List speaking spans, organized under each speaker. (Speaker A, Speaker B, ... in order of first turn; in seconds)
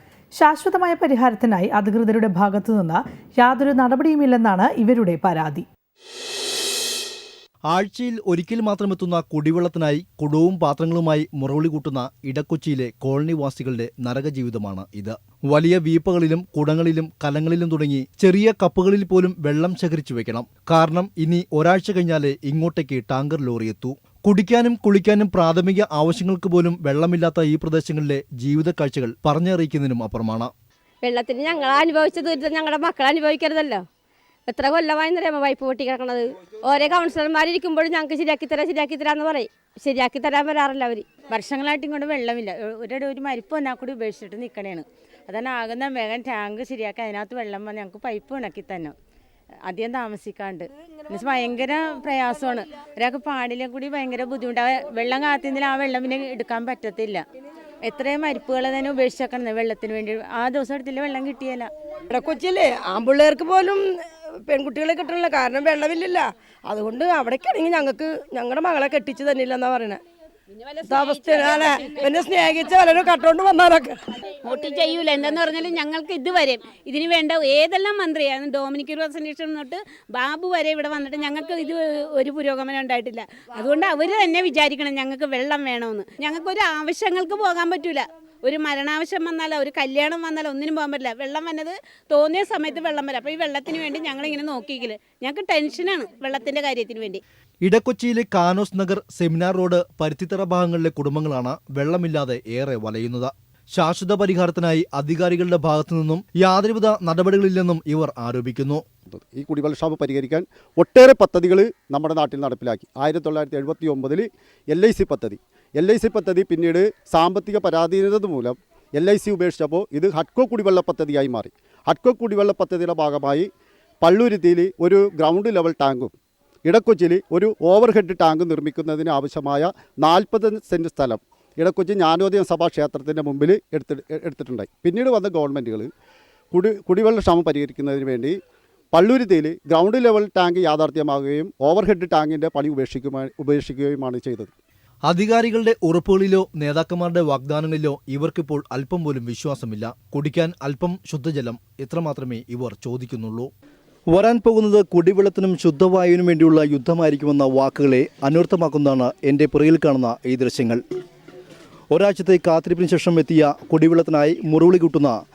Speaker A: 0.4-5.7
Speaker B: 7.7-30.5, 97.6-108.8, 145.1-153.5, 154.1-160.8, 161.9-165.2
Speaker C: 31.0-33.9, 34.5-41.1
Speaker D: 41.3-49.0, 49.7-57.2, 57.8-61.7
Speaker E: 62.1-70.0, 70.8-74.1
Speaker F: 70.7-72.2, 74.3-97.2
Speaker G: 109.1-123.5, 124.0-126.1, 126.7-135.9, 136.5-138.4, 138.9-144.5